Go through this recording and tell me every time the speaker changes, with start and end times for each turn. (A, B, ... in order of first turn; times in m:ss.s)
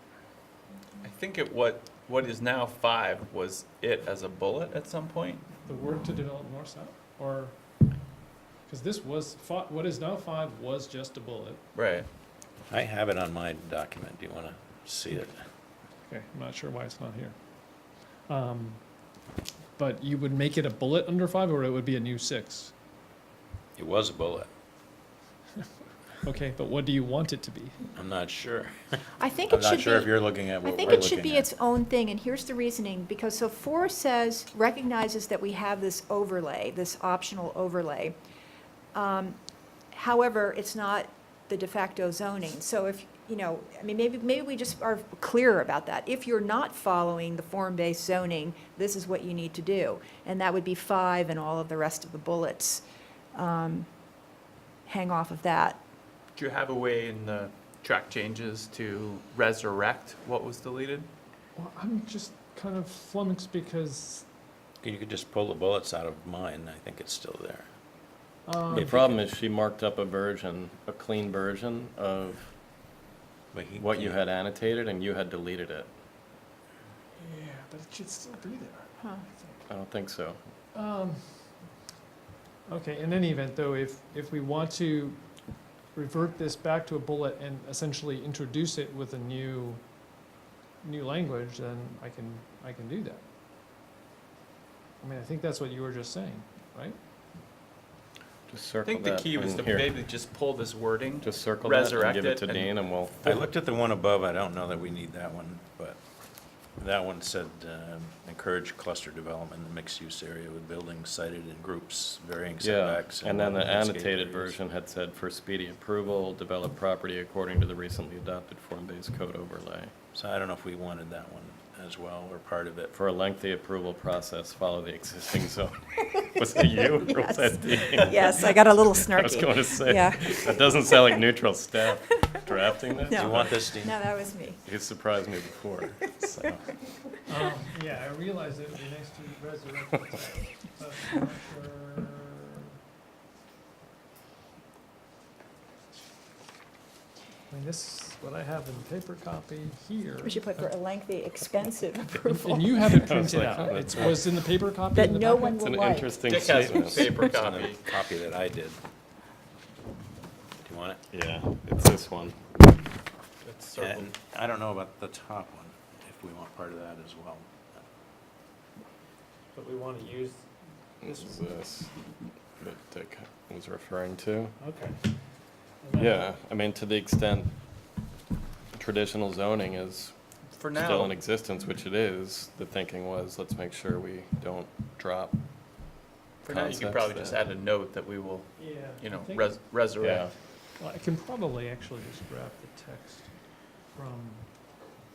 0:01.0-0:05.4 A
0:05.6-0:07.6 B
0:08.7-0:11.6 B
0:11.7-0:12.1 A
0:12.7-0:15.4 C
0:16.0-0:17.4 B
0:18.3-0:18.8 B
0:19.8-0:22.7 B
0:23.8-0:24.5 C
0:26.2-0:27.8 B
0:28.0-0:31.5 C
0:29.2-0:38.2 D
0:38.9-0:39.4 D
0:39.9-0:52.8 D
0:53.3-0:53.9 D
0:54.9-0:55.8 D
0:56.4-1:01.1 A
1:01.6-1:04.3 B
1:04.8-1:07.7 C
1:08.5-1:09.0 B
1:08.7-1:09.1 C
1:08.7-1:12.5 E
1:13.5-1:14.2 C
1:13.8-1:15.9 E
1:17.2-1:19.6 B
1:19.7-1:20.4 E
1:20.7-1:21.5 B
1:22.7-1:25.2 B
1:25.9-1:29.8 B
1:30.8-1:33.2 B
1:35.0-1:37.0 B
1:38.5-1:39.9 E
1:38.8-1:42.7 A
1:41.2-1:43.4 E
1:43.2-1:46.0 C
1:46.8-1:54.6 C
1:52.6-1:59.9 E
2:00.1-2:02.9 C
2:02.9-2:13.6 E
2:06.6-2:10.9 D
2:13.1-2:14.6 D
2:13.1-2:14.0 C
2:14.6-2:16.7 E
2:17.3-2:22.6 B
2:27.5-2:30.7 B
2:30.2-2:33.9 D
2:32.3-2:35.6 B
2:32.9-2:34.2 E
2:34.9-2:37.3 D
2:35.4-2:37.3 E
2:36.2-2:37.8 A
2:37.3-2:38.8 C
2:40.6-2:41.0 C
2:41.1-2:42.8 E
2:43.4-2:44.1 A
2:43.8-2:47.5 C
2:49.5-2:50.5 B
2:51.0-2:52.0 E
2:51.0-2:51.4 B
2:52.6-2:54.6 E
2:54.6-2:55.1 B
2:55.8-2:56.3 B
2:55.9-2:57.5 E
2:58.7-3:00.1 E
3:00.6-3:01.2 A
3:00.7-3:05.4 E
3:06.4-3:07.4 E
3:06.4-3:10.3 A
3:08.6-3:09.6 B
3:10.0-3:10.3 E
3:10.8-3:13.3 B
3:13.9-3:14.5 B